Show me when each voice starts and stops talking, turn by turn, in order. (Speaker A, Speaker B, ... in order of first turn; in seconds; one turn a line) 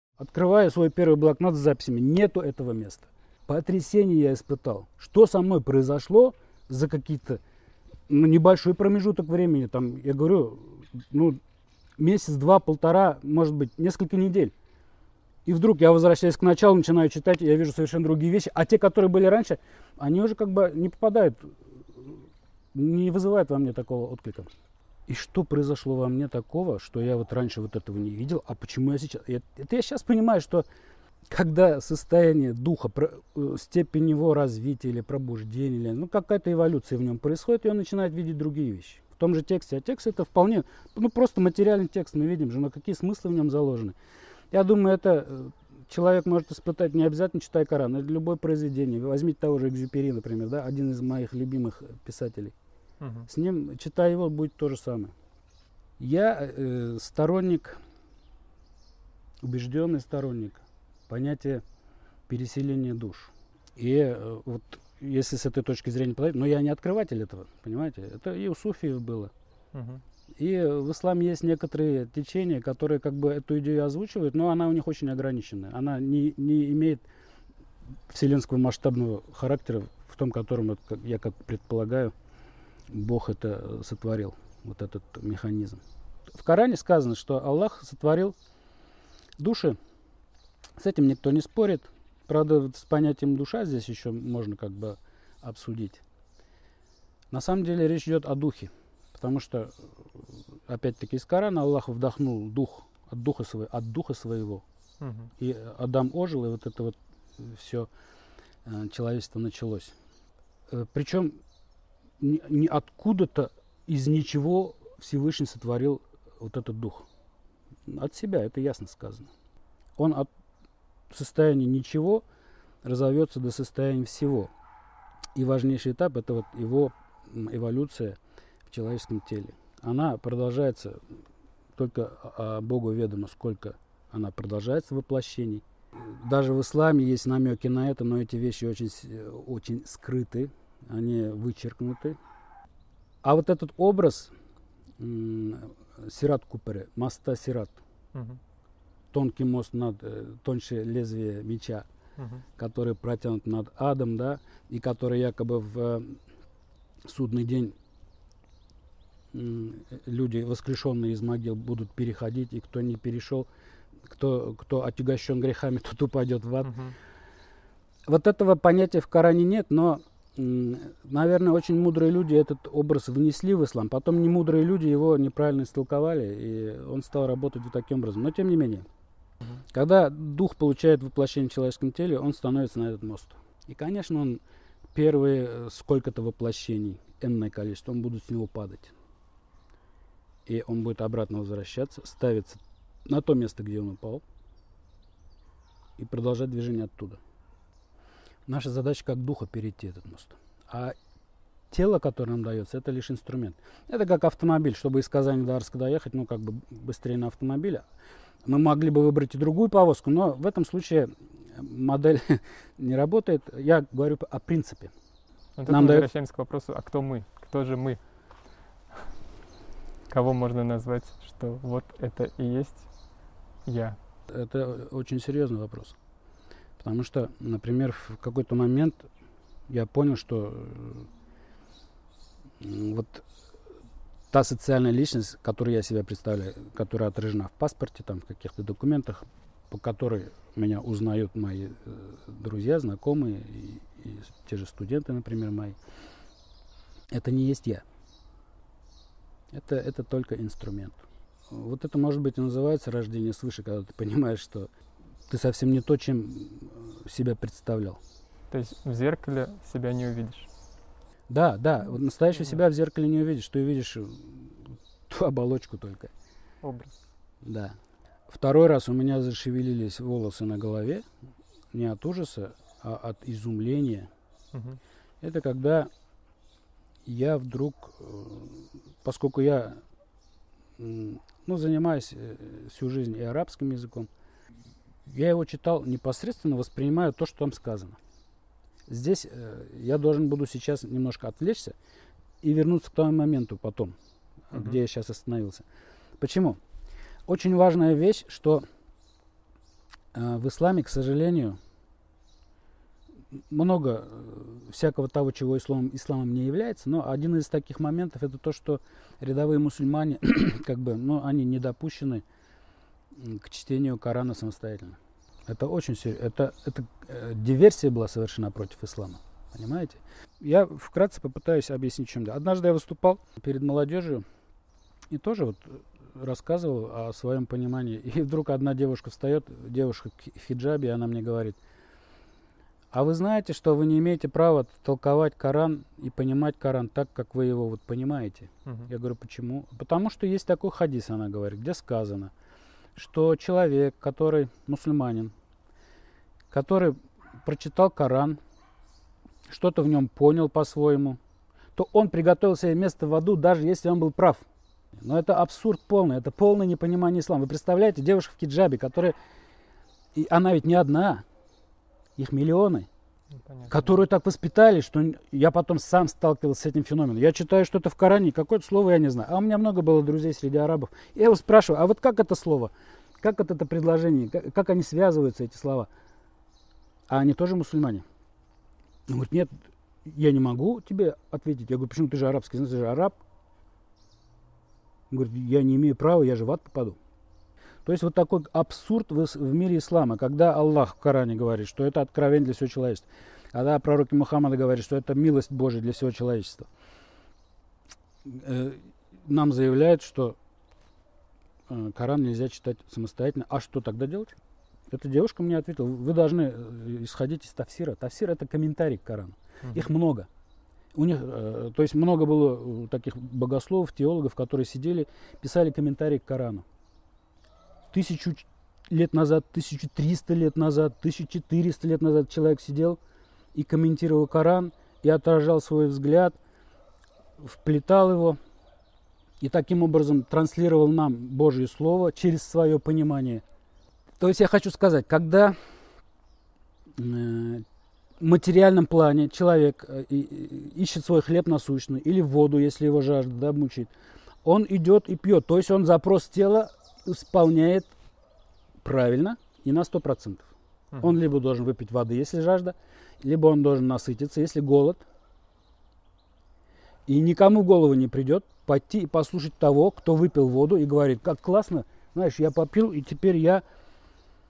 Speaker A: 0.2-7.4
Speaker A: 8.1-11.4
Speaker A: 12.0-14.5
Speaker A: 15.5-24.5
Speaker A: 25.1-30.7
Speaker A: 31.3-44.0
Speaker A: 44.5-52.5
Speaker B: 53.0-53.3
Speaker A: 53.3-55.1
Speaker A: 56.0-57.8
Speaker A: 59.4-61.6
Speaker A: 62.3-69.3
Speaker B: 69.7-70.0
Speaker A: 70.4-77.0
Speaker A: 78.1-82.1
Speaker A: 82.9-85.8
Speaker A: 86.3-88.3
Speaker A: 89.4-89.8
Speaker A: 90.8-96.0
Speaker A: 97.3-104.6
Speaker B: 105.0-105.3
Speaker A: 105.4-107.9
Speaker A: 108.7-109.9
Speaker A: 110.7-111.4
Speaker A: 112.2-117.1
Speaker A: 117.9-119.3
Speaker A: 120.0-120.3
Speaker A: 121.1-122.2
Speaker A: 122.8-124.5
Speaker A: 125.3-131.0
Speaker A: 131.8-142.2
Speaker A: 143.2-144.3
Speaker A: 145.0-147.8
Speaker B: 148.1-148.4
Speaker A: 149.1-151.9
Speaker B: 152.2-152.4
Speaker A: 152.6-156.2
Speaker A: 157.0-157.8
Speaker A: 159.3-163.5
Speaker A: 164.1-166.8
Speaker B: 166.6-166.9
Speaker A: 168.1-178.9
Speaker A: 179.7-184.4
Speaker A: 184.9-188.9
Speaker A: 190.5-194.2
Speaker A: 196.0-197.2
Speaker A: 198.5-201.0
Speaker A: 201.7-207.8
Speaker A: 208.4-214.9
Speaker B: 215.6-218.0
Speaker A: 215.7-216.1
Speaker B: 220.1-222.9
Speaker B: 223.7-224.0
Speaker A: 224.3-226.0
Speaker A: 226.8-229.1
Speaker A: 229.7-231.1
Speaker A: 232.6-233.3
Speaker A: 234.3-245.8
Speaker A: 247.1-247.8
Speaker A: 249.5-254.7
Speaker A: 255.3-258.0
Speaker B: 258.5-260.5
Speaker A: 261.3-266.1
Speaker B: 266.6-267.0
Speaker A: 267.4-267.8
Speaker A: 268.3-271.1
Speaker A: 271.7-274.1
Speaker B: 274.5-274.8
Speaker A: 275.2-275.9
Speaker A: 277.1-279.8
Speaker A: 280.8-284.1
Speaker A: 285.1-288.0
Speaker A: 288.9-291.8
Speaker A: 292.4-293.9
Speaker A: 294.5-295.6
Speaker A: 296.2-296.6
Speaker A: 297.3-298.6
Speaker A: 300.1-301.6
Speaker A: 303.5-312.2
Speaker A: 313.1-324.2
Speaker A: 325.1-331.6
Speaker A: 332.9-342.3
Speaker A: 343.0-345.3
Speaker A: 346.5-348.4
Speaker A: 349.5-351.2
Speaker A: 351.8-354.4
Speaker A: 355.0-359.2
Speaker A: 360.1-361.2
Speaker A: 362.2-362.9
Speaker B: 363.4-364.0
Speaker A: 363.7-375.9
Speaker A: 377.1-378.1
Speaker A: 379.1-379.5
Speaker A: 380.1-383.2
Speaker A: 385.1-387.0
Speaker A: 387.9-396.7
Speaker A: 398.2-400.4
Speaker A: 401.7-404.4
Speaker A: 404.9-410.3
Speaker A: 410.9-416.6
Speaker A: 417.9-423.0
Speaker A: 423.5-426.4
Speaker A: 427.4-428.4
Speaker A: 429.4-433.4
Speaker A: 434.2-435.6
Speaker A: 437.0-437.6
Speaker A: 438.2-443.9
Speaker A: 444.4-447.9
Speaker A: 448.8-450.5
Speaker A: 451.0-455.0
Speaker A: 457.1-463.6